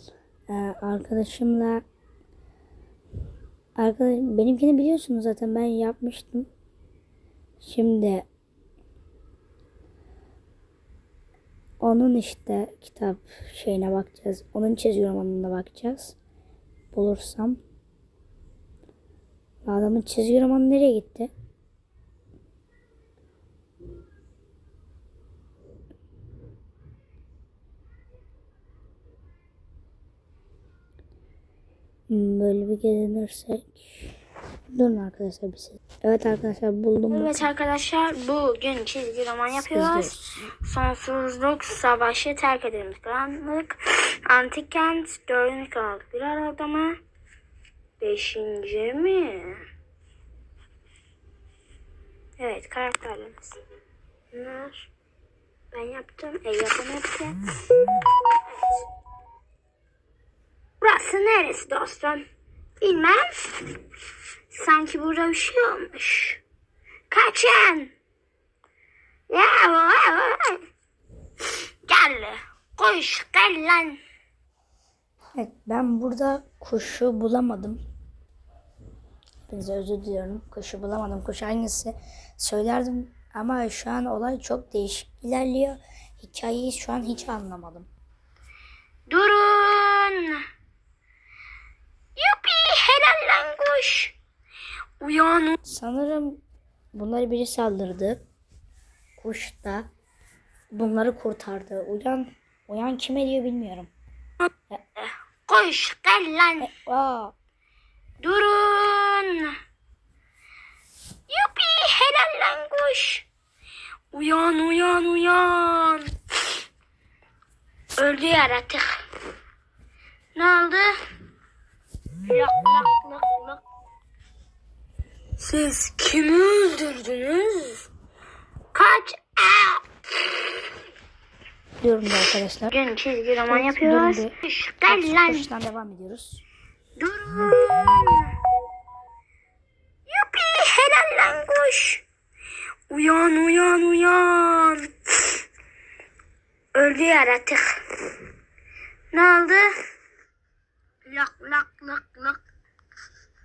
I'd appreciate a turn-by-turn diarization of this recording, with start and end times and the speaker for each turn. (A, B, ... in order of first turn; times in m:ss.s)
0:00.5-0:01.8 A
0:03.8-0:06.5 A
0:07.6-0:08.3 A
0:11.8-0:16.2 A
0:16.9-0:17.6 A
0:19.6-0:21.3 A
0:32.1-0:34.1 A
0:34.7-0:37.5 A
0:37.1-0:47.0 B
0:39.5-0:40.2 A
0:48.0-0:49.6 B
0:52.4-0:53.6 B
0:54.3-0:54.9 B
0:55.7-0:57.4 B
1:00.8-1:02.2 B
1:02.8-1:03.7 B
1:04.5-1:06.4 B
1:07.1-1:07.9 B
1:09.3-1:10.6 B
1:11.9-1:14.0 B
1:15.3-1:17.8 A
1:19.5-1:27.9 A
1:29.1-1:30.4 B
1:32.2-1:34.1 B
1:35.0-1:35.6 B
1:35.6-1:36.4 A
1:36.9-1:38.2 A
1:39.2-1:39.9 A
1:40.7-1:43.9 A
1:44.5-1:46.7 B
1:46.6-1:47.3 A
1:48.2-1:49.5 B
1:51.3-1:53.3 B
1:54.1-1:56.1 B
1:58.0-1:59.0 B
2:00.3-2:00.9 B
2:02.2-2:03.6 B
2:05.4-2:07.9 B
2:08.7-2:09.8 B
2:11.8-2:12.8 A
2:12.7-2:15.5 B
2:13.5-2:14.3 A
2:14.9-2:16.4 A
2:17.0-2:18.3 B
2:20.1-2:22.0 B
2:22.9-2:25.3 B
2:26.7-2:27.8 B
2:29.1-2:29.7 B
2:31.0-2:32.4 B